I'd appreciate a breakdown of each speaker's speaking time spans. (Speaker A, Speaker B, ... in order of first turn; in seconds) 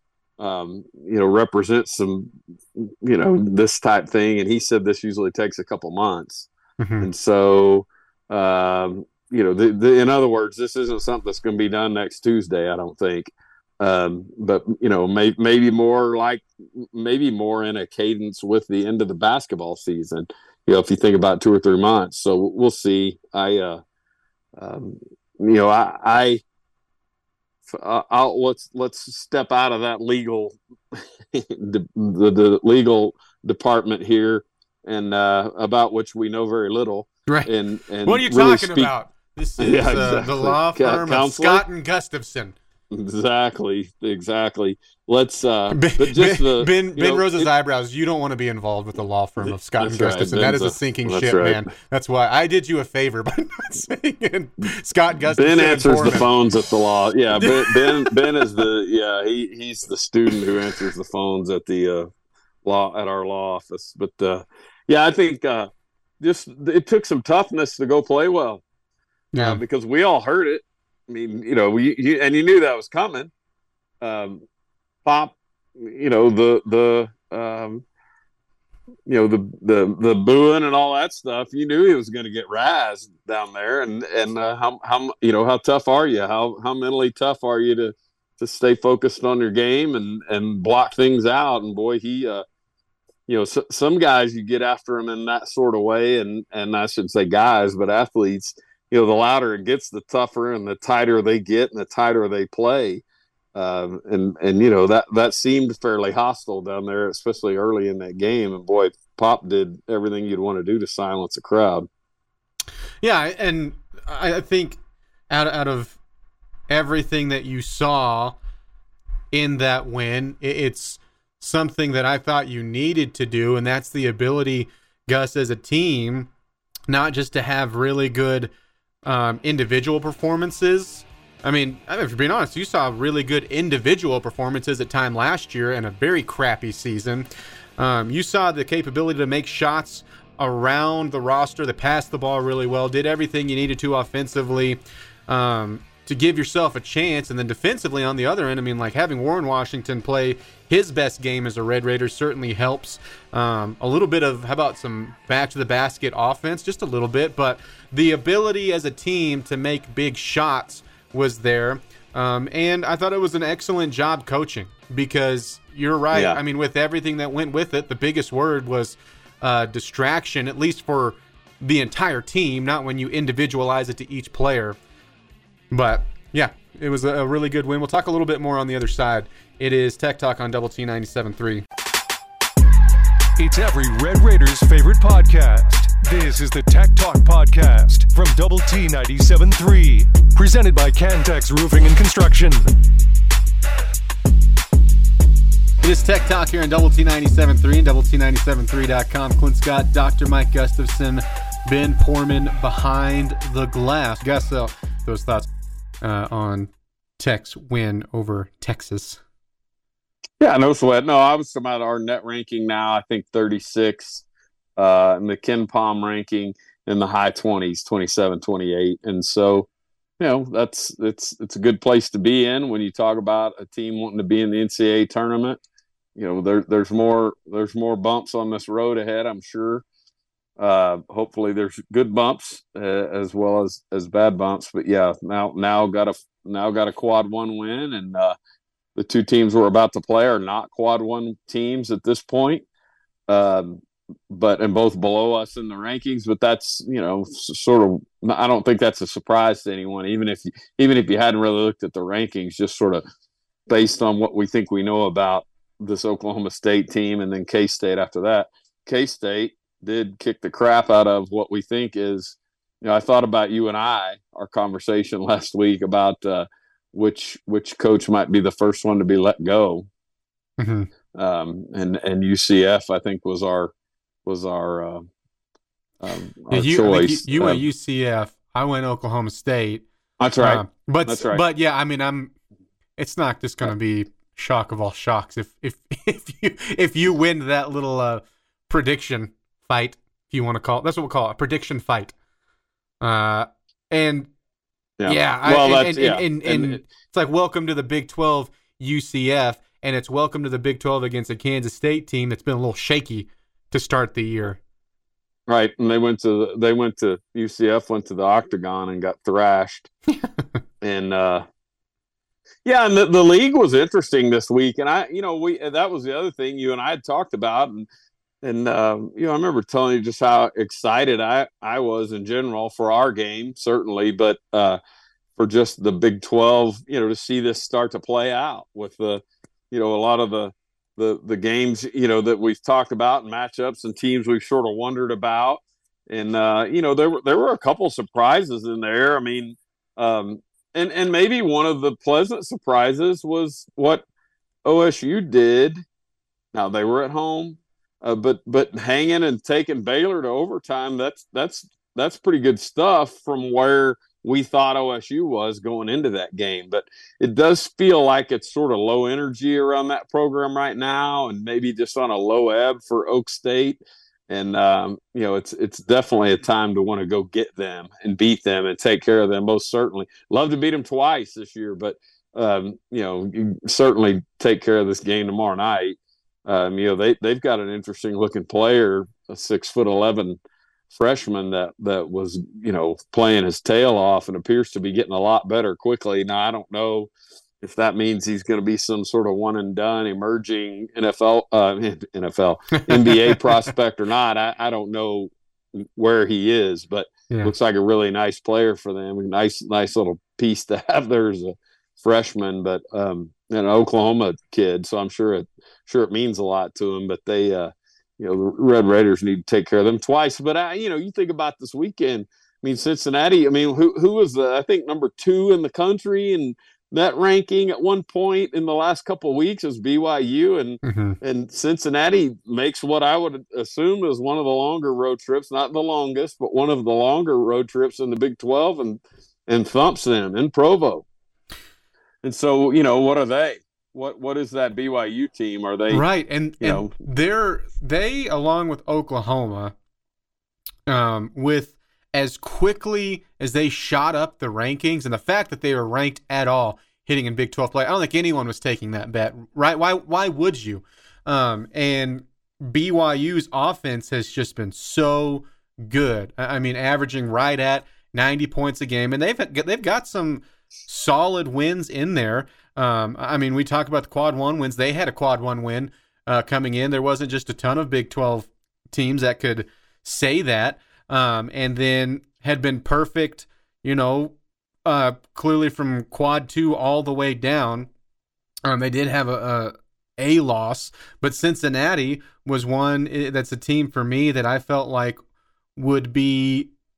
Speaker A: 0.4-6.5, 7.0-23.8, 24.6-26.4, 27.7-38.9, 39.6-41.6, 42.9-47.5, 49.4-51.7, 55.3-62.1, 62.6-65.7, 66.2-68.6, 69.4-73.3, 74.0-74.4, 75.0-77.8, 79.1-92.4, 93.3-103.0, 103.5-111.9, 166.1-166.4, 210.4-214.2, 214.8-219.7, 220.2-225.6, 226.2-229.8, 230.6-238.3, 238.9-242.6, 243.3-253.0, 253.7-269.9, 271.1-273.7, 274.2-275.0, 276.0-277.6, 280.2-281.4, 295.0-296.8, 305.5-309.9, 310.8-311.4, 312.6-317.9, 318.4-324.8, 325.4-344.0, 344.6-345.8, 346.5-380.4, 380.9-387.1, 387.6-431.0, 432.2-436.0, 436.6-436.9
Speaker B: 6.8-7.1, 38.0-42.5, 45.7-56.3, 57.3-58.6, 69.3-69.6, 113.0-114.8, 115.3-116.0, 116.7-118.4, 119.3-126.3, 126.9-128.5, 129.0-174.8, 175.7-181.6, 195.8-205.5, 206.0-209.2, 270.6-270.9, 276.5-279.8, 280.4-282.3, 283.0-292.1, 293.0-294.3, 295.1-304.6, 392.7-393.4, 420.8-421.2, 435.9-439.7, 440.9-477.9, 478.6-485.2, 485.8-486.7
Speaker C: 183.4-192.7